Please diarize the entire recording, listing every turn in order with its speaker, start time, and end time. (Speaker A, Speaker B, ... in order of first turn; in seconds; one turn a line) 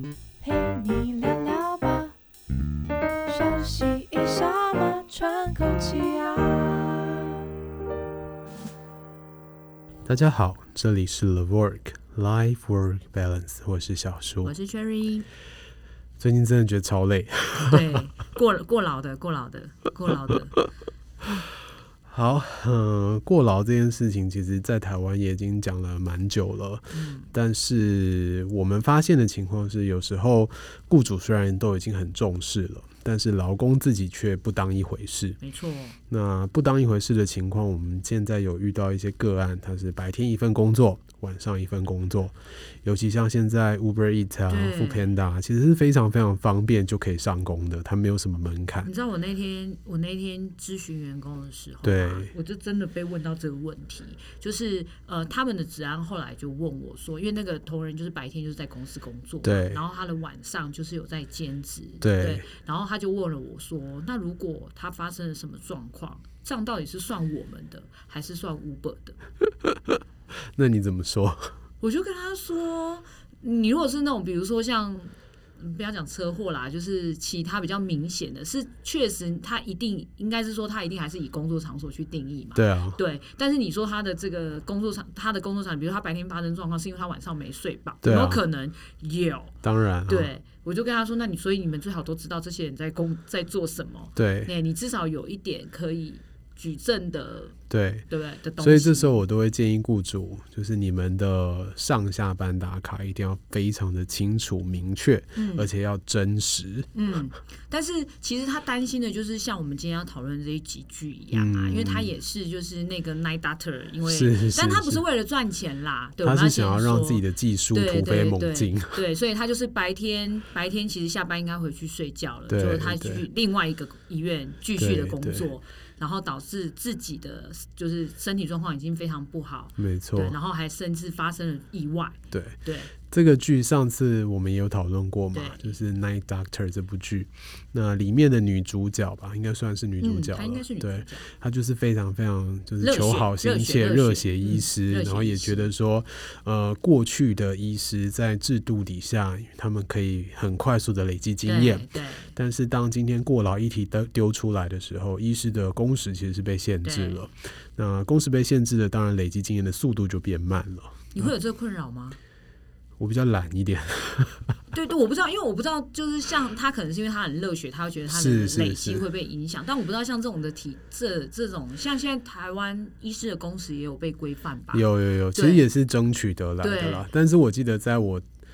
Speaker A: 0.4-2.1
Speaker A: 3.3-7.4
Speaker B: 10.1-14.5
Speaker C: 14.4-15.3
Speaker B: 16.2-18.0
Speaker C: 17.5-20.6
Speaker B: 22.1-35.4
Speaker C: 26.9-27.3
Speaker C: 35.4-36.0
Speaker B: 36.1-48.9
Speaker C: 44.5-45.1
Speaker C: 48.8-69.2
Speaker B: 51.8-52.3
Speaker B: 59.4-59.8
Speaker B: 62.0-62.5
Speaker B: 70.5-71.5
Speaker C: 71.8-89.5
Speaker B: 82.5-83.0
Speaker B: 88.0-88.4
Speaker B: 89.6-90.3
Speaker C: 90.1-97.5
Speaker B: 94.2-94.5
Speaker B: 97.7-98.1
Speaker C: 98.1-99.2
Speaker B: 98.6-106.9
Speaker C: 105.3-105.7
Speaker C: 106.9-132.9
Speaker B: 111.3-112.1
Speaker B: 114.0-115.0
Speaker B: 116.2-119.0
Speaker B: 122.5-123.2
Speaker B: 124.8-125.5
Speaker B: 129.8-130.3
Speaker B: 132.3-132.6
Speaker B: 133.1-161.3
Speaker C: 135.3-135.8
Speaker C: 140.0-141.3
Speaker C: 142.8-145.7
Speaker C: 151.4-152.3
Speaker C: 156.8-157.2
Speaker C: 161.1-162.2
Speaker B: 163.0-164.6
Speaker C: 164.7-175.7
Speaker B: 168.1-169.1
Speaker B: 174.7-178.2
Speaker C: 176.6-177.1